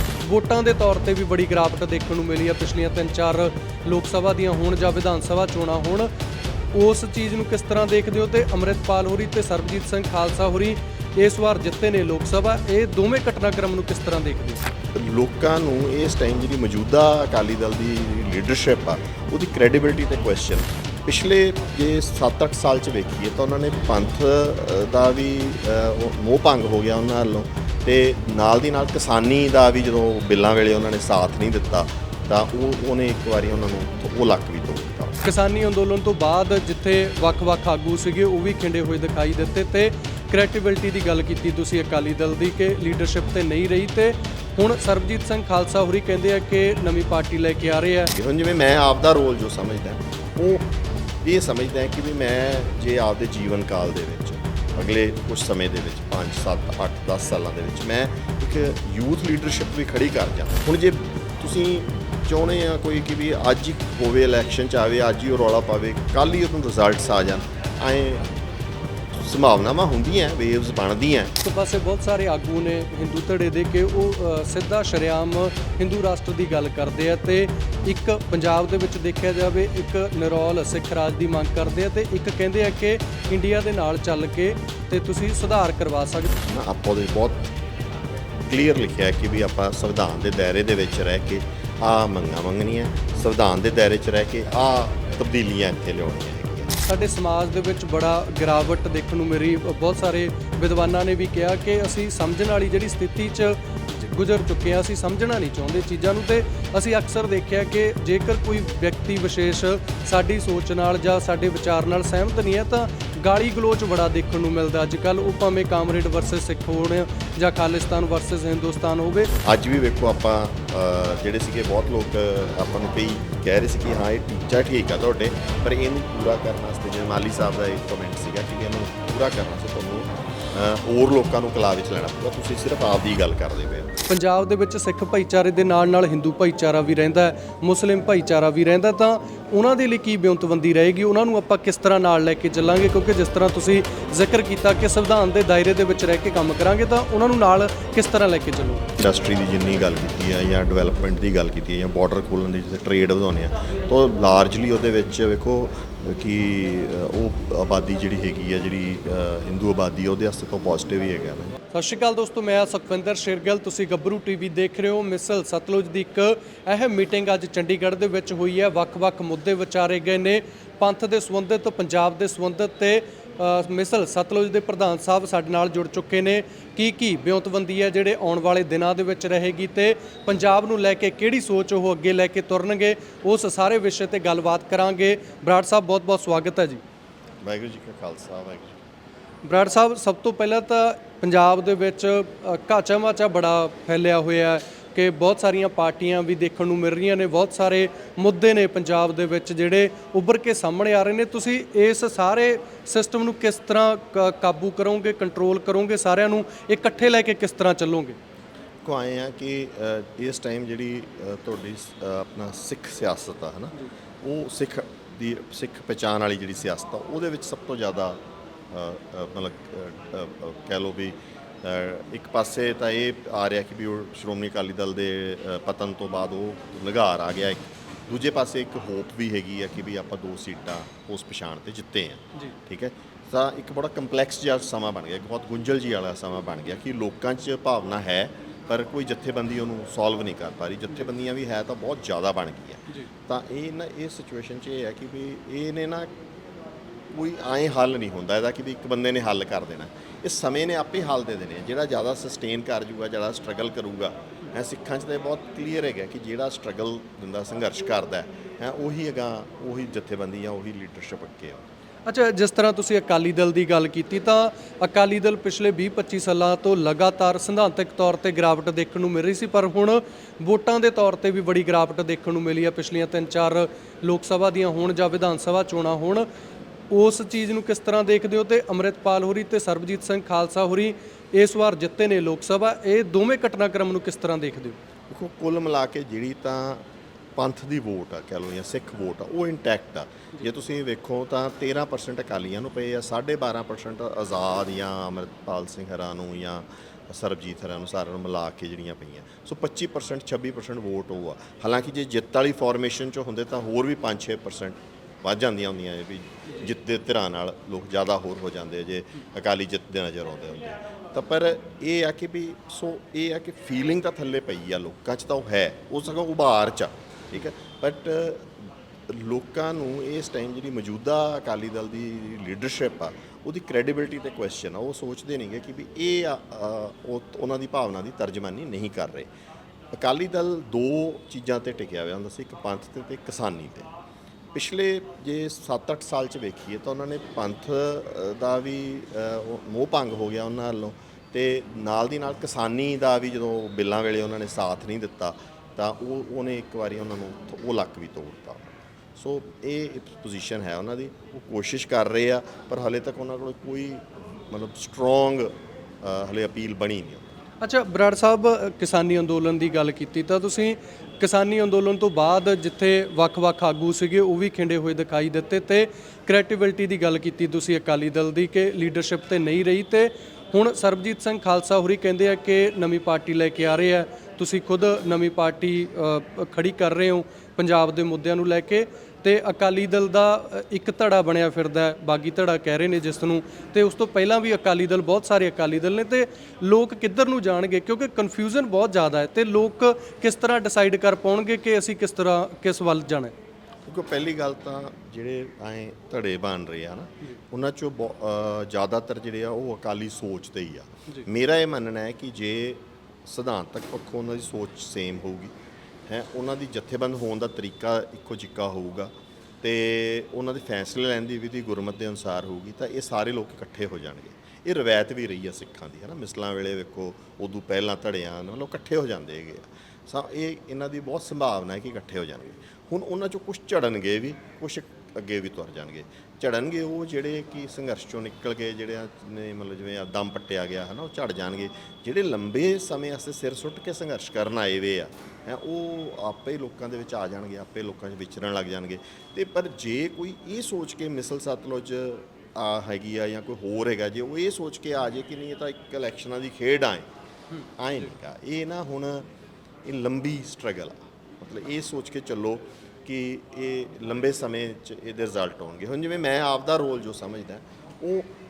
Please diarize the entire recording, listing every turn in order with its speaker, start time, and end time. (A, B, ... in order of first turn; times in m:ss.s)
0:00.2-0:06.1 A
0:06.7-0:14.6 A
0:14.9-0:35.2 B
0:35.2-0:48.1 A
0:48.1-0:50.7 B
0:51.2-1:08.3 B
1:09.2-1:11.3 B
1:11.4-1:26.3 A
1:26.4-1:27.5 B
1:28.5-1:36.8 B
1:36.8-1:59.3 A
1:59.4-2:13.9 B
2:14.1-2:28.8 A
2:29.0-2:41.5 B
2:41.7-3:06.8 A
3:07.4-3:08.8 B
3:09.4-3:28.2 A
3:28.8-3:38.2 B
3:38.7-4:06.1 B
4:07.1-4:21.6 B
4:22.0-4:36.3 A
4:36.9-4:44.8 A
4:45.1-4:46.8 B
4:47.4-5:29.3 B
5:29.9-5:33.9 B
5:34.5-5:57.3 B
5:57.6-6:33.3 A
6:33.8-6:45.5 B
6:46.1-6:49.1 B
6:49.6-7:27.0 B
7:27.8-7:29.2 B
7:29.8-7:38.3 B